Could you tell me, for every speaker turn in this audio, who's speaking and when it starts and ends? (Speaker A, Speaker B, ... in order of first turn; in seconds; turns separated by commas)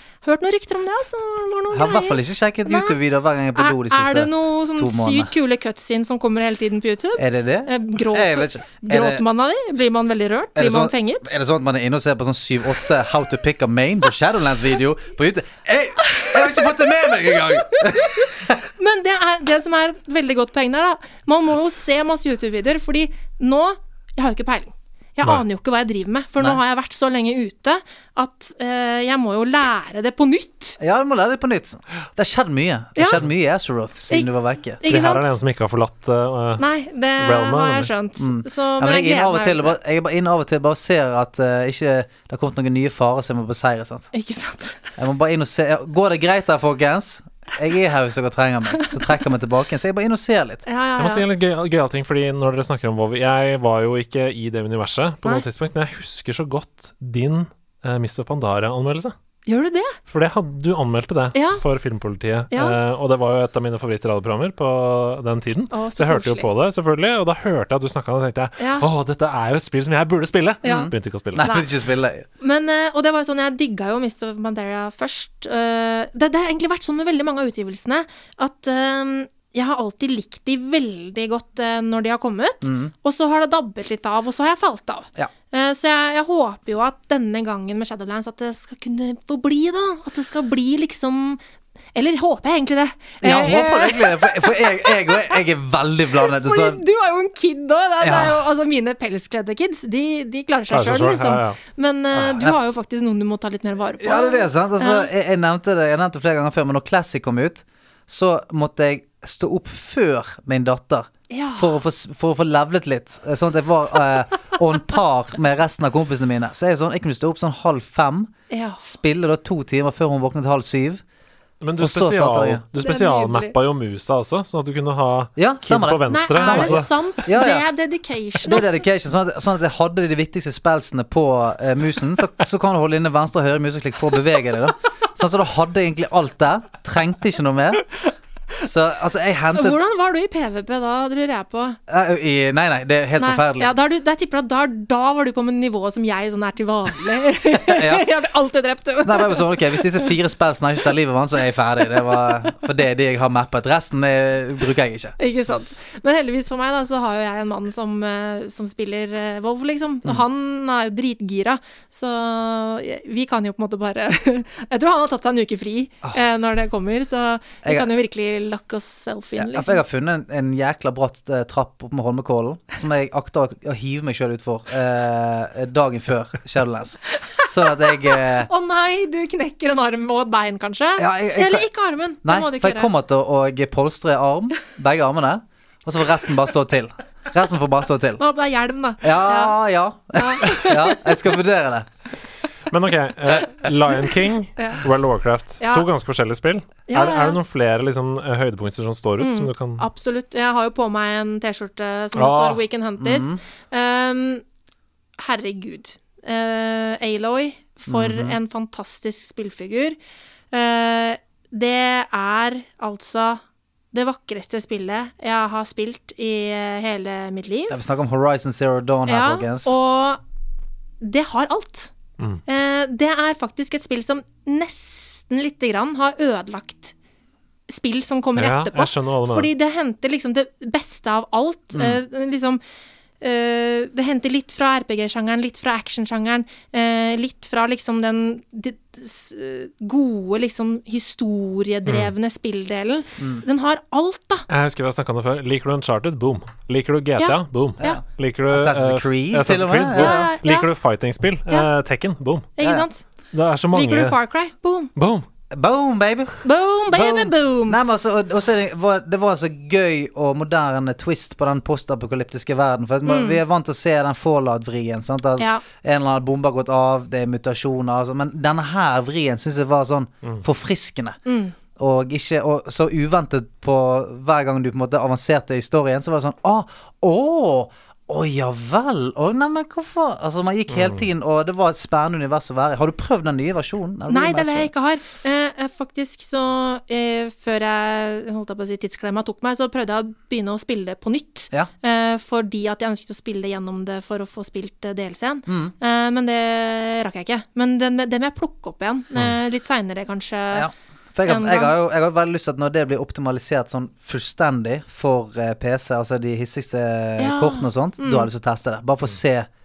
Speaker A: 0.2-3.0, Speaker B: 1.7-5.3, Speaker A: 3.5-11.3, Speaker B: 7.2-9.2, Speaker B: 10.6-18.6, Speaker A: 16.0-16.8, Speaker A: 17.3-30.8, Speaker B: 30.8-34.8, Speaker A: 33.0-33.2, Speaker A: 34.1-35.3, Speaker C: 34.9-36.6, Speaker A: 36.6-39.8, Speaker C: 37.2-37.9, Speaker B: 38.2-44.1, Speaker A: 44.1-44.8, Speaker B: 45.0-50.6, Speaker A: 50.6-51.2, Speaker C: 51.0-59.1, Speaker A: 59.5-60.0, Speaker C: 60.1-71.4, Speaker A: 61.3-61.6, Speaker A: 62.5-62.8, Speaker A: 65.7-66.5, Speaker A: 68.6-68.9, Speaker A: 70.6-71.7, Speaker B: 70.6-72.2, Speaker A: 72.4-91.4, Speaker B: 82.6-82.9, Speaker A: 91.9-95.4, Speaker B: 93.2-96.8, Speaker A: 96.2-105.1, Speaker B: 98.0-98.4, Speaker C: 100.7-101.6, Speaker B: 102.1-102.6, Speaker B: 104.0-121.0, Speaker A: 111.3-111.8, Speaker A: 118.5-118.8, Speaker C: 121.6-126.9, Speaker B: 121.8-122.6, Speaker A: 122.8-123.5, Speaker B: 125.3-127.7, Speaker A: 126.1-128.8, Speaker B: 128.4-137.9, Speaker B: 138.6-139.8, Speaker A: 139.5-141.8, Speaker B: 141.9-143.7, Speaker A: 143.2-150.1, Speaker B: 147.6-148.1, Speaker B: 149.0-155.2, Speaker A: 155.2-169.8, Speaker B: 167.6-167.9, Speaker B: 169.4-178.5, Speaker A: 178.4-182.9, Speaker B: 181.0-181.7, Speaker B: 182.2-188.2, Speaker A: 188.2-189.6, Speaker B: 189.0-191.9, Speaker A: 190.1-191.2, Speaker C: 192.7-199.8, Speaker A: 194.6-194.8, Speaker A: 195.6-195.8, Speaker A: 196.9-197.4, Speaker A: 199.2-204.4, Speaker C: 202.2-202.6, Speaker B: 203.0-203.4, Speaker A: 205.2-210.0, Speaker B: 207.9-208.4, Speaker A: 210.5-213.4, Speaker A: 213.9-217.8, Speaker B: 217.7-219.8, Speaker A: 219.1-220.2, Speaker A: 221.0-221.9, Speaker A: 222.5-226.9, Speaker A: 227.7-232.6, Speaker C: 228.3-229.5, Speaker B: 231.7-232.0, Speaker A: 233.2-244.4, Speaker C: 241.8-242.1, Speaker C: 244.5-252.5, Speaker A: 247.2-248.0, Speaker B: 247.8-250.3, Speaker A: 249.9-250.7, Speaker A: 252.6-253.0, Speaker B: 252.6-252.8, Speaker C: 253.3-254.2, Speaker A: 253.7-254.9, Speaker C: 254.9-255.2, Speaker B: 255.5-271.2, Speaker A: 256.4-257.8, Speaker A: 263.1-263.4, Speaker A: 265.4-265.6, Speaker A: 271.2-271.6, Speaker B: 271.8-284.7, Speaker C: 280.7-281.0, Speaker A: 284.1-300.7, Speaker B: 295.5-295.7, Speaker B: 300.5-309.5, Speaker A: 301.2-301.7, Speaker A: 307.2-308.3